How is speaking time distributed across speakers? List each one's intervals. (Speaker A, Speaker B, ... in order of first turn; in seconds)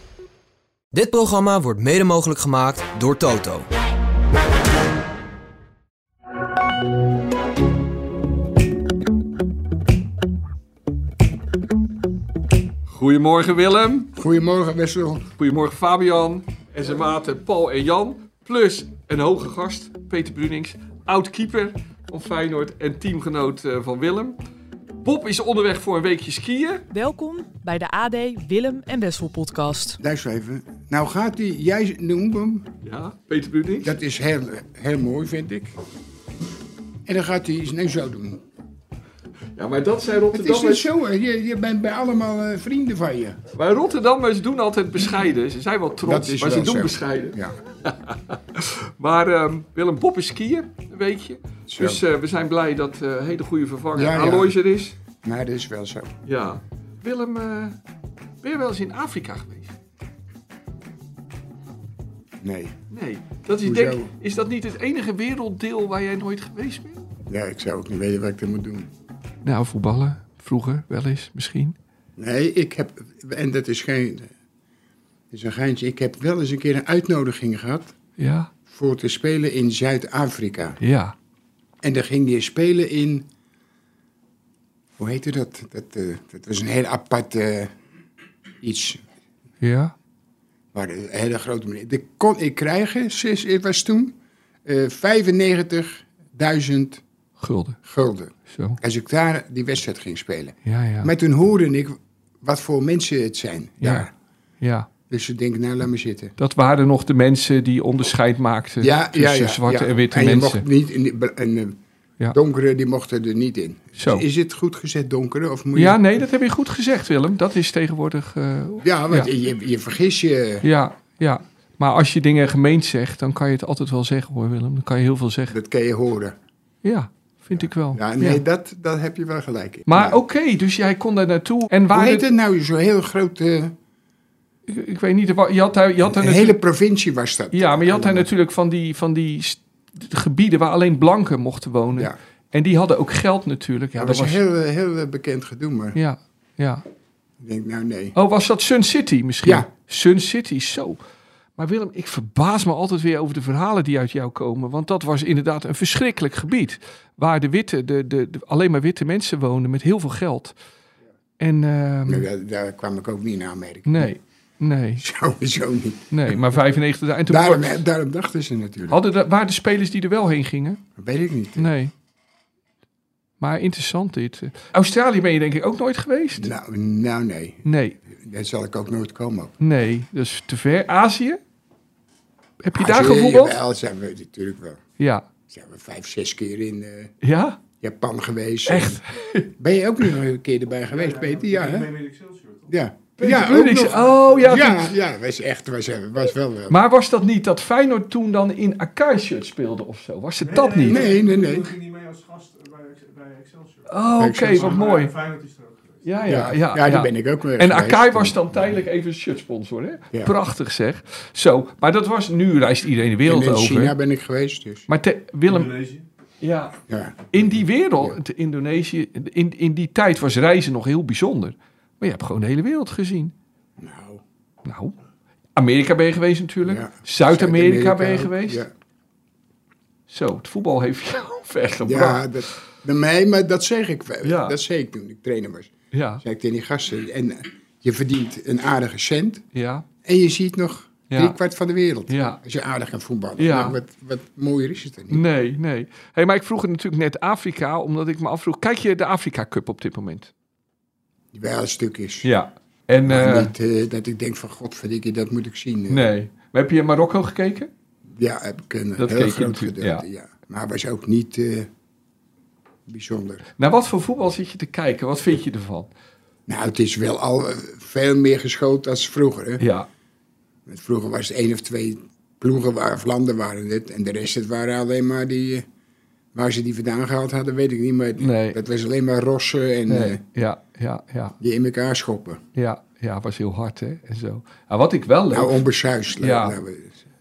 Speaker A: 0.9-3.7
Speaker B: 12.9-14.1, 15.4-24.4, 25.0-26.8, 32.8-33.9, 39.5-40.9, 43.5-55.0, 56.2-57.8, 58.4-59.7, 62.9-67.0, 69.4-71.8, 78.2-78.5, 80.8-81.1, 89.6-89.9, 97.4-97.8, 98.5-98.8, 100.6-101.1, 103.8-104.1, 104.6-104.9, 106.4-110.6, 114.0-114.2, 115.7-119.3, 120.6-125.5, 126.8-128.4, 129.9-132.2, 134.7-136.6, 137.5-144.4, 145.9-146.8, 148.1-151.0, 151.6-160.6, 161.4-162.3, 163.8-165.0, 166.1-167.8, 168.9-170.8, 171.6-171.9, 173.4-176.5, 177.6-178.0, 179.6-181.4, 182.6-183.6, 185.0-185.3, 187.2-187.6, 188.7-189.5, 193.2-194.9, 196.7-201.0, 203.9-205.1, 206.0-213.9, 214.9-215.8, 216.4-216.8, 217.3-223.3, 224.6-224.9, 225.6-228.6, 230.1-232.5, 234.2-234.6, 235.9-236.2, 239.5-239.8, 241.1-241.4, 242.1-242.4, 243.4-243.8, 245.1-250.3, 252.2-253.5, 255.9-257.7, 259.0-260.1, 263.6-265.9, 269.6-269.9, 278.2-278.6, 279.9-281.3, 282.5-285.6, 286.2-286.6
Speaker C: 14.1-15.3, 30.0-32.7, 33.8-35.7, 37.0-38.4, 40.3-43.4, 46.0-47.5, 51.7-52.0, 53.9-56.1, 62.4-62.8, 63.6-64.1, 67.3-68.9, 72.2-74.3, 75.3-77.9, 78.7-80.8, 81.8-83.3, 85.0-87.7, 88.6-89.0, 90.7-97.0, 97.8-104.1, 105.1-106.3, 108.8-111.8, 112.3-116.0, 118.8-120.6, 125.5-126.3, 127.9-130.2, 131.9-133.8, 136.0-138.3, 144.0-146.0, 147.4-148.2, 149.4-149.7, 162.1-164.1, 165.0-166.5, 167.2-169.0, 171.0-171.7, 176.3-179.5, 182.7-184.8, 185.5-187.1, 187.8-189.0, 189.6-191.9, 192.7-196.8, 200.8-201.7, 204.2-204.8, 206.3-208.3, 213.2-214.9, 216.9-218.2, 223.8-224.2, 226.6-228.7, 231.8-239.4, 240.0-245.2, 251.3-252.3, 253.0-256.1, 258.1-261.7, 262.9-263.4, 266.5-269.6, 270.6-275.6, 276.3-280.2, 281.4-282.4, 285.3-287.0
Speaker D: 26.9-30.0
Speaker E: 190.9-192.7, 193.9-194.7, 200.4-206.0, 215.5-216.0